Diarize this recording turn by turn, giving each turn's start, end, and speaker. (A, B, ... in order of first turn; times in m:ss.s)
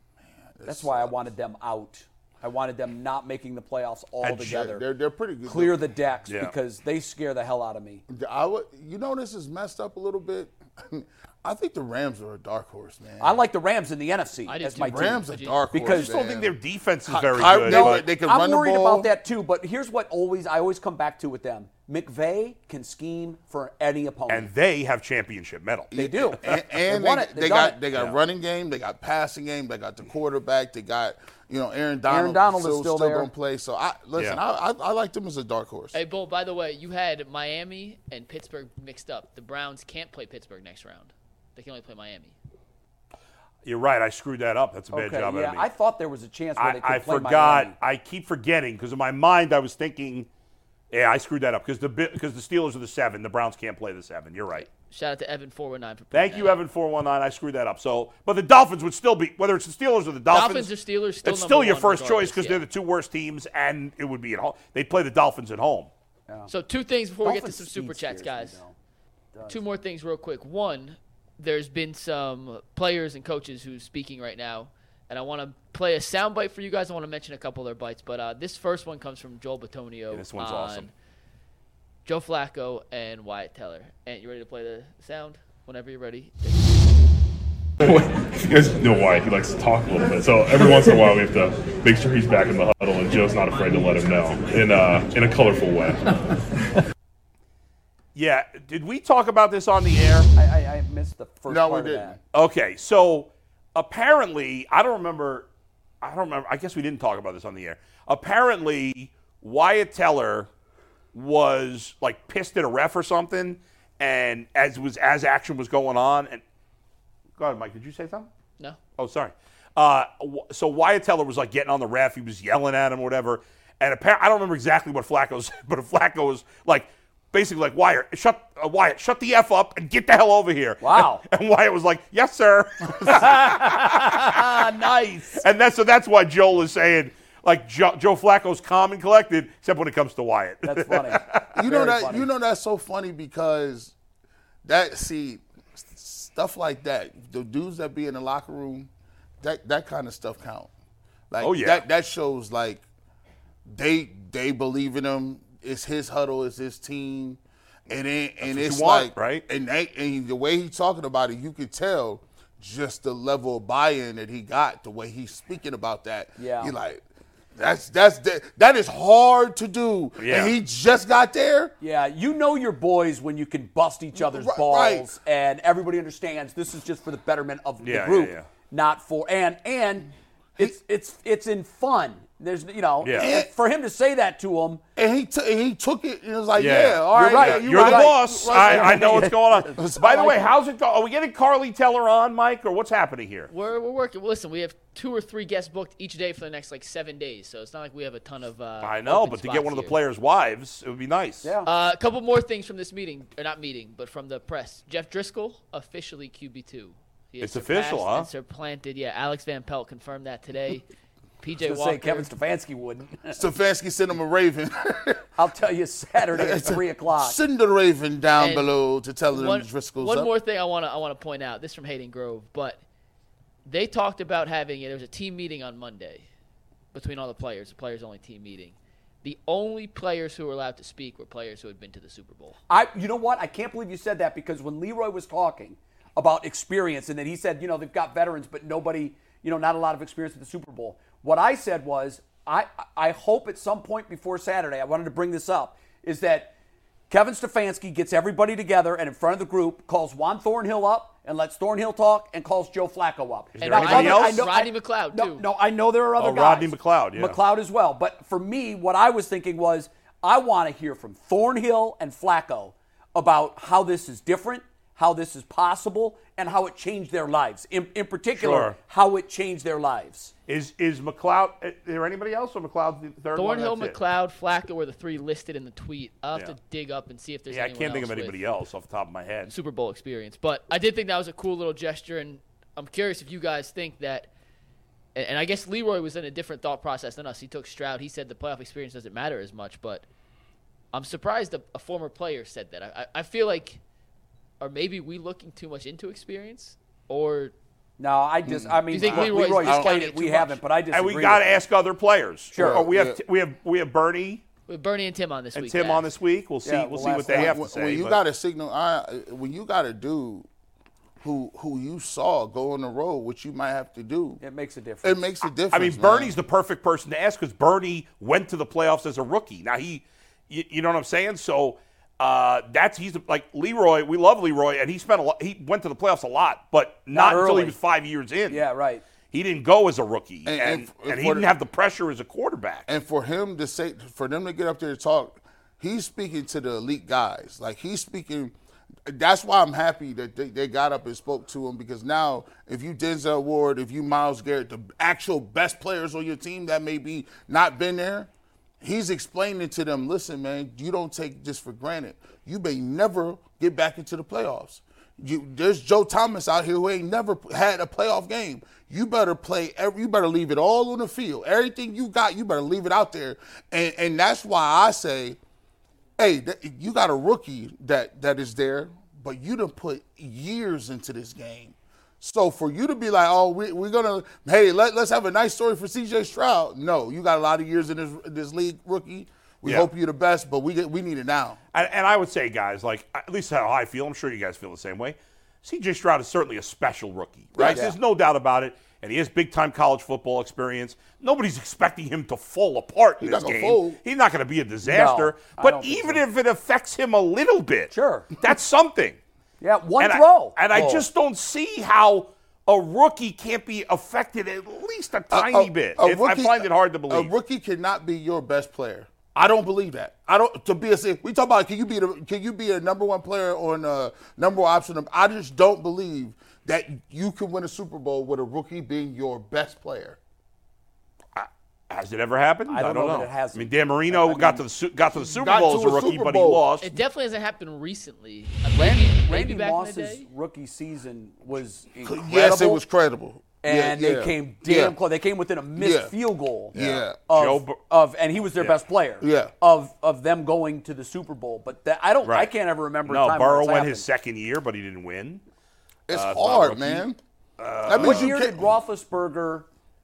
0:00.4-0:01.1 A
0:00.6-0:04.8 B
0:04.2-0:05.8 A
0:05.4-0:08.0 B
0:06.3-0:06.5 C
0:08.1-0:13.4 A
0:13.2-0:16.2 B
0:14.5-0:15.6 D
0:14.8-0:16.6 A
0:15.9-0:18.0 C
0:17.1-0:19.1 A
0:17.6-0:24.5 B
0:24.3-0:25.9 C
0:25.9-0:27.8 B
0:25.9-0:36.0 A
0:32.1-0:33.3 B
0:35.9-0:42.4 D
0:43.6-0:45.7 C
0:44.9-0:47.7 B
0:46.6-0:50.3 C
0:50.9-0:54.7 C
0:54.6-0:56.6 D
0:56.1-1:00.7 C
1:00.3-1:02.6 D
1:01.2-1:05.9 C
1:06.5-1:08.6 D
1:07.2-1:08.7 B
1:09.5-1:20.9 D
1:20.1-1:20.9 C
1:22.0-1:26.8 D
1:27.8-1:36.4 E
1:38.1-1:40.3 C
1:40.3-1:42.2 B
1:41.5-1:42.2 A
1:42.3-1:45.5 C
1:46.0-1:50.5 C
1:51.1-1:56.4 C
1:57.4-1:58.3 C
1:59.0-2:14.7 C
2:10.8-2:11.2 B
2:13.0-2:15.4 B
2:15.3-2:21.4 C
2:20.6-2:22.3 B
2:21.5-2:23.9 A
2:24.6-2:28.9 A
2:29.4-2:30.7 A
2:31.3-2:32.8 A
2:31.4-2:31.8 C
2:33.6-2:47.0 A
2:38.4-2:39.4 C
2:46.4-2:46.7 B
2:47.5-2:51.7 A
2:50.2-2:50.5 C
2:51.8-3:04.8 B
2:54.1-2:55.1 A
2:57.8-2:58.5 C
3:03.0-3:03.3 C
3:03.1-3:03.5 A
3:05.0-3:10.4 A
3:06.6-3:13.5 C
3:07.1-3:10.4 B
3:13.5-3:20.0 D
3:18.8-3:21.5 C
3:21.4-3:21.7 B
3:21.6-3:30.8 D
3:27.4-3:28.3 C
3:31.4-3:32.3 D
3:31.6-3:33.4 B
3:33.3-3:35.2 A
3:35.4-3:37.4 B
3:36.3-3:40.3 A
3:38.4-3:38.7 D
3:39.3-3:42.8 D
3:43.6-3:46.2 D
3:46.9-3:52.6 D
3:52.7-4:06.5 B
4:07.1-4:30.3 B
4:13.6-4:14.5 C
4:13.6-4:15.4 D
4:16.2-4:17.4 C
4:28.4-4:28.8 C
4:30.5-4:34.0 C
4:33.3-4:38.4 D
4:37.5-4:39.5 C
4:39.5-4:44.3 D
4:45.1-4:50.0 D
4:50.9-4:53.8 D
4:54.6-4:57.5 D
4:58.0-5:01.6 B
4:58.4-4:59.9 A
4:58.9-5:00.6 D
5:00.9-5:04.4 C
5:02.5-5:02.9 B
5:02.6-5:03.2 A
5:04.7-5:06.1 D
5:05.5-5:08.2 C
5:06.6-5:07.6 B
5:07.2-5:10.5 A
5:11.2-5:14.4 A
5:14.4-5:15.2 B
5:15.0-5:16.3 A
5:15.7-5:28.6 C
5:27.1-5:27.8 B
5:28.5-5:29.0 B
5:29.3-5:32.9 C
5:30.4-5:31.5 A
5:32.9-5:38.5 A
5:39.0-5:48.3 A
5:48.8-6:05.4 A
6:06.2-6:21.6 A
6:21.7-6:39.2 C
6:27.6-6:27.8 A
6:27.6-6:28.0 B
6:33.2-6:34.0 A
6:34.8-6:36.2 B
6:37.9-6:38.3 B
6:39.6-6:41.1 B
6:40.0-6:47.3 C
6:45.3-7:00.2 A
7:01.3-7:06.9 C
7:02.7-7:04.6 B
7:05.1-7:06.6 A
7:06.8-7:10.2 D
7:08.8-7:12.8 B
7:12.0-7:15.0 A
7:13.6-7:24.1 B
7:15.8-7:16.1 A
7:16.7-7:17.2 A
7:16.8-7:17.8 C
7:19.2-7:19.5 A
7:22.2-7:22.5 C
7:23.0-7:25.4 C
7:26.1-7:27.2 A
7:26.1-7:27.0 C
7:27.6-7:28.3 C
7:27.8-7:28.8 A
7:27.9-7:29.6 B